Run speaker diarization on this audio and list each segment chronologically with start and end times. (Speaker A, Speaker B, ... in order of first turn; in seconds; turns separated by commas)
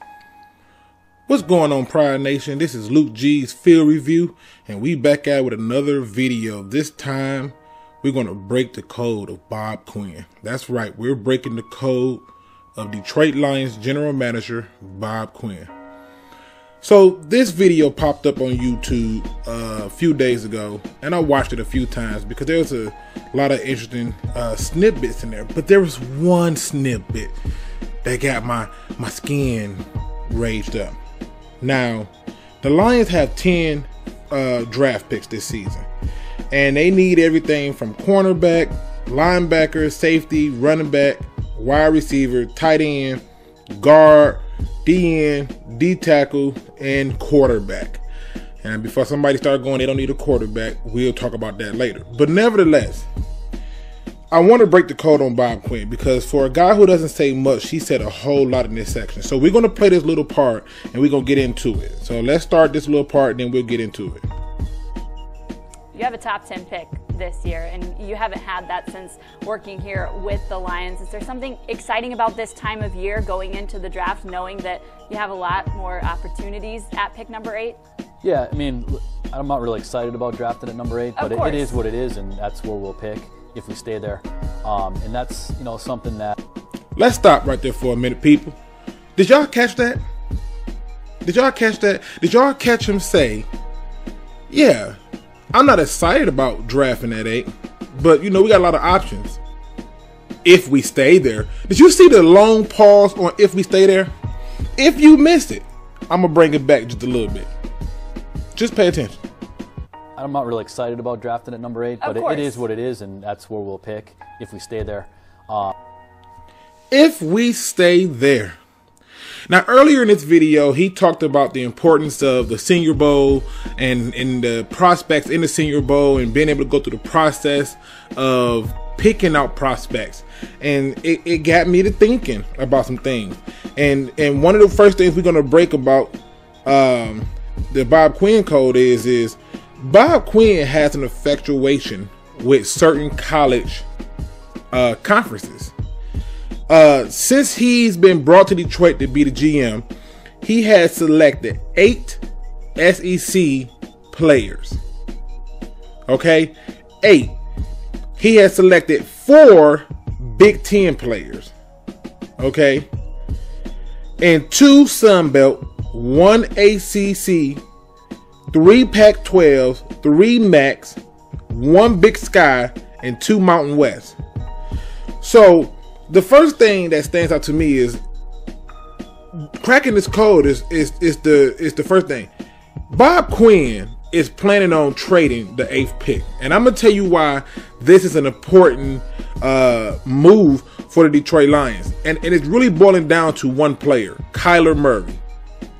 Speaker A: 1.3-15.7, Speaker A: 16.8-27.3, Speaker A: 28.0-30.9, Speaker A: 31.6-32.1, Speaker A: 32.6-35.9, Speaker A: 36.5-43.2, Speaker A: 43.7-48.0, Speaker A: 48.6-53.1, Speaker A: 54.3-64.2, Speaker B: 65.9-77.8, Speaker C: 78.2-86.4, Speaker B: 81.2-81.8, Speaker A: 86.9-88.6, Speaker A: 89.2-90.0, Speaker A: 91.2-93.5, Speaker A: 94.5-95.0, Speaker A: 95.5-99.4, Speaker A: 100.4-104.1, Speaker A: 104.8-107.5, Speaker A: 108.5-109.2, Speaker C: 110.2-115.7, Speaker B: 112.0-112.6, Speaker A: 116.9-118.6, Speaker A: 119.5-143.8, Speaker A: 144.7-145.7, Speaker A: 146.7-149.9, Speaker A: 150.4-152.2, Speaker A: 152.8-154.8, Speaker A: 156.1-157.3, Speaker A: 158.2-161.5, Speaker A: 162.4-162.9, Speaker A: 164.2-167.6, Speaker A: 168.5-171.0, Speaker A: 171.5-174.2, Speaker A: 175.2-178.0, Speaker A: 179.6-182.3, Speaker A: 182.9-195.2